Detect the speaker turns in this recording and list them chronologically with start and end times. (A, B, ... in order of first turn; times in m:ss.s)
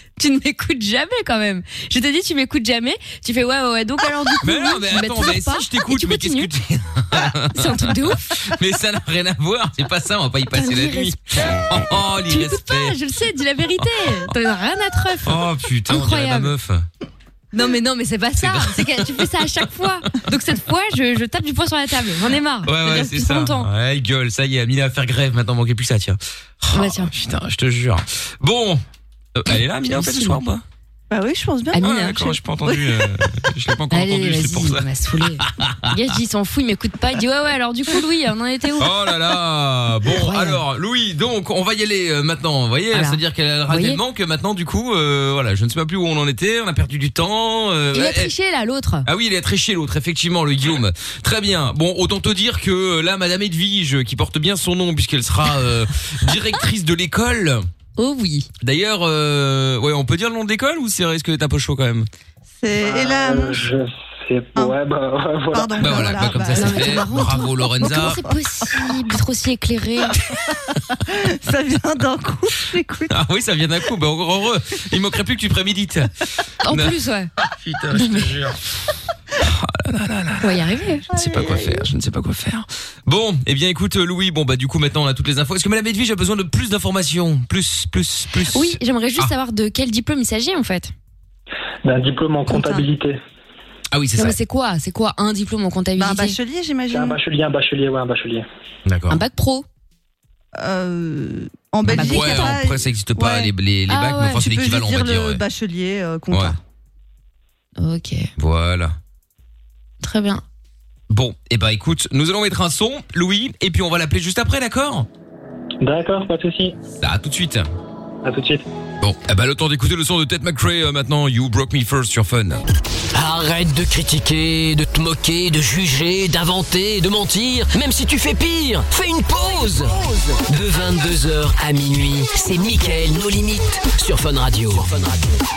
0:00.2-0:06.5 A
0:04.4-0:13.0 B
0:07.5-0:08.2 A
0:10.5-0:11.6 A
0:12.3-0:16.5 A
0:15.2-0:16.9 B
0:17.5-0:23.7 A
0:18.4-0:19.3 B
0:22.6-0:28.8 B
0:26.7-0:27.1 A
0:29.3-0:30.6 B
0:29.5-0:30.4 A
0:31.1-0:32.8 C
0:31.7-0:32.4 A
0:31.8-0:36.0 B
0:33.9-0:39.0 A
0:38.8-0:48.3 B
0:40.1-0:40.6 A
0:42.9-0:44.0 A
0:47.9-0:49.1 A
0:49.0-0:57.6 B
0:58.0-0:58.5 A
0:58.6-1:02.1 B
1:02.6-1:03.7 C
1:02.8-1:06.2 D
1:05.5-1:08.2 C
1:05.8-1:08.2 B
1:06.5-1:10.2 A
1:11.1-1:13.1 C
1:13.1-1:16.1 B
1:16.6-1:17.3 A
1:16.7-1:16.9 B
1:17.5-1:18.6 B
1:17.9-1:18.4 A
1:19.4-1:29.3 B
1:20.4-1:21.1 A
1:21.1-1:21.9 C
1:28.5-1:30.9 A
1:31.8-1:33.2 D
1:32.5-1:32.8 C
1:33.9-1:34.4 B
1:34.2-1:36.4 A
1:36.0-1:37.2 C
1:36.9-1:38.4 D
1:38.8-1:39.2 B
1:39.1-1:39.6 A
1:40.6-1:43.5 C
1:41.8-1:45.4 B
1:41.8-1:42.6 A
1:43.9-1:44.4 A
1:44.3-1:46.6 C
1:47.8-1:48.3 A
1:48.4-1:49.0 B
1:50.0-1:50.4 A
1:51.1-1:55.1 B
1:55.8-1:56.8 D
1:57.0-1:57.7 B
1:58.2-1:58.6 D
1:59.0-2:02.6 B
2:03.1-2:10.0 E
2:10.5-2:15.3 E